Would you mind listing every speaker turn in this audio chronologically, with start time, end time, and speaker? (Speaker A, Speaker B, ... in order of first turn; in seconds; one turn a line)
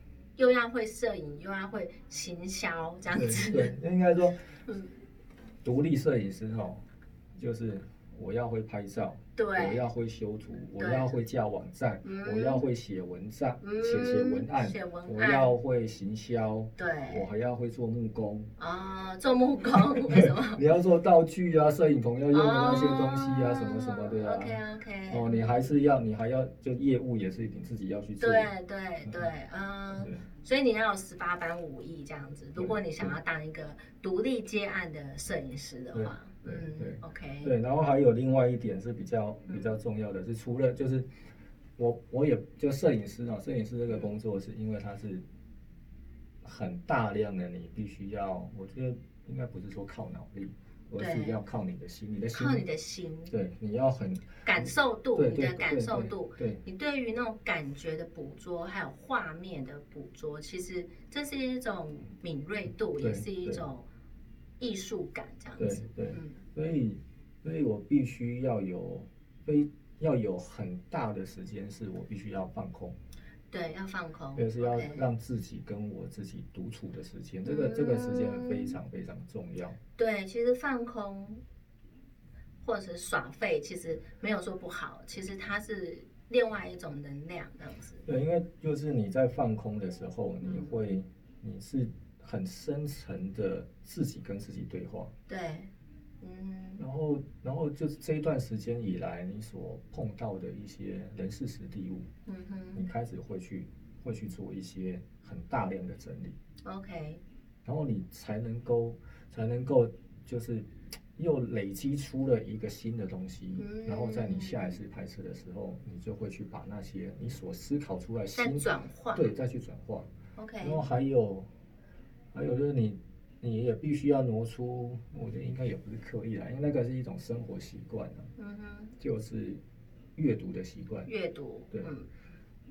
Speaker A: 0.4-3.7
Speaker B: 3.1-4.5
Speaker A: 4.7-4.9
Speaker B: 5.6-6.8
Speaker B: 7.4-18.5
Speaker A: 9.4-9.8
Speaker A: 10.8-11.2
Speaker A: 12.0-12.7
Speaker A: 13.6-15.5
Speaker A: 16.8-17.3
Speaker A: 18.6-20.6
Speaker B: 19.8-28.5
Speaker A: 22.3-25.6
Speaker A: 28.2-37.5
Speaker B: 29.9-30.2
Speaker B: 32.6-33.1
Speaker B: 35.9-41.1
Speaker A: 39.5-39.7
Speaker B: 41.8-45.2
Speaker B: 46.4-52.7
Speaker A: 51.0-51.4
Speaker A: 52.3-53.3
Speaker B: 53.3-56.6
Speaker A: 54.5-63.9
Speaker B: 63.0-63.7
Speaker A: 64.6-66.4
Speaker B: 65.6-73.0
Speaker A: 73.5-75.0
Speaker B: 74.3-79.8
Speaker A: 77.5-78.8
Speaker A: 80.0-81.4
Speaker A: 82.6-88.0
Speaker B: 88.0-95.1
Speaker A: 90.4-90.7
Speaker A: 95.3-96.8
Speaker B: 96.8-102.1
Speaker A: 102.3-102.9
Speaker B: 102.8-106.4
Speaker A: 106.6-107.2
Speaker B: 107.7-120.1
Speaker A: 113.6-114.8
Speaker A: 118.3-119.3
Speaker A: 120.4-120.9
Speaker B: 120.6-121.5
Speaker B: 122.3-128.3
Speaker A: 128.4-128.9
Speaker B: 129.0-129.6
Speaker B: 130.2-131.1
Speaker A: 131.1-132.1